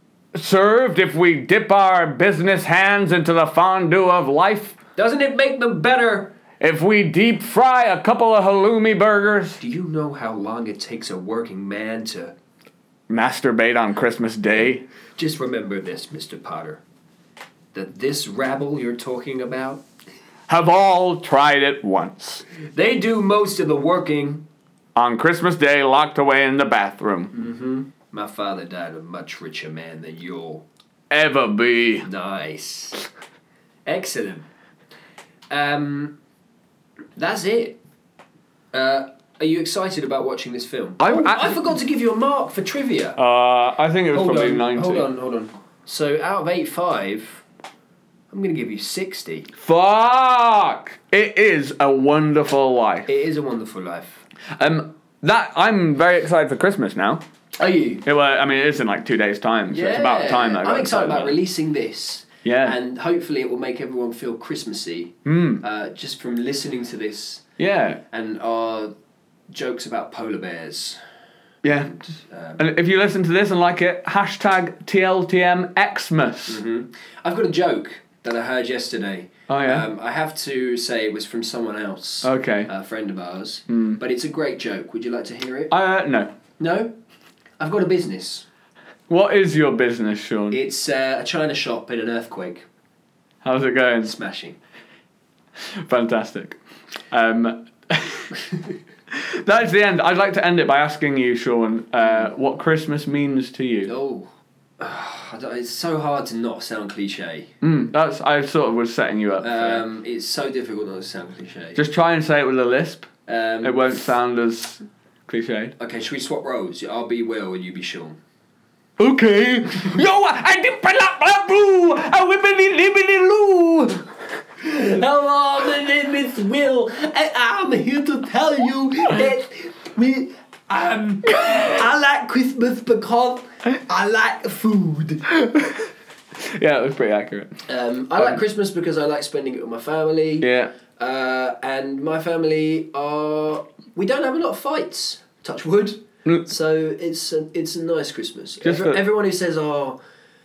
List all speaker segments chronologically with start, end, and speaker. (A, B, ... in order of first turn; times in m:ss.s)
0:00.3-0:04.8 A
0:05.0-0:06.3 B
0:06.6-0:09.6 A
0:09.6-0:12.3 B
0:13.1-0:14.8 A
0:15.2-0:16.8 B
0:17.7-0:19.8 B
0:20.5-0:22.4 A
0:22.7-0:24.4 B
0:25.0-0:27.3 A
0:27.3-0:30.6 B
0:31.1-0:32.1 A
0:32.0-0:33.0 B
0:33.8-0:34.5 B
0:35.5-0:36.2 B
0:37.2-0:37.8 B
0:38.7-0:43.2 B
0:41.0-0:41.6 A
0:43.2-0:45.1 A
0:44.1-0:47.4 B
0:48.3-0:49.5 B
0:49.6-0:53.1 A
0:53.1-0:54.2 B
0:54.6-0:57.2 A
0:57.6-0:58.0 B
0:58.0-1:01.4 A
0:59.7-1:07.4 B
1:02.4-1:02.8 A
1:05.2-1:05.6 A
1:07.6-1:08.0 A
1:08.1-1:08.9 B
1:09.5-1:11.0 B
1:11.6-1:11.9 A
1:11.8-1:12.7 B
1:12.6-1:16.6 A
1:16.5-1:25.7 B
1:19.5-1:19.8 A
1:22.2-1:22.7 A
1:23.7-1:24.0 A
1:25.7-1:26.3 A
1:26.6-1:26.9 B
1:27.6-1:28.5 B
1:29.1-1:30.6 A
1:30.5-1:32.6 B
1:33.4-1:34.1 A
1:34.0-1:34.6 B
1:35.7-1:36.6 A
1:37.1-1:38.4 A
1:39.1-1:43.9 A
1:43.8-1:47.5 B
1:47.6-1:49.8 A
1:49.4-1:51.8 B
1:51.8-1:53.1 A
1:53.2-1:54.0 B
1:53.6-1:55.7 A
1:55.8-1:58.2 B
1:59.0-2:04.0 A
2:04.6-2:15.3 B
2:15.3-2:17.6 A
2:17.6-2:30.0 B
2:20.4-2:20.7 A
2:28.6-2:29.0 A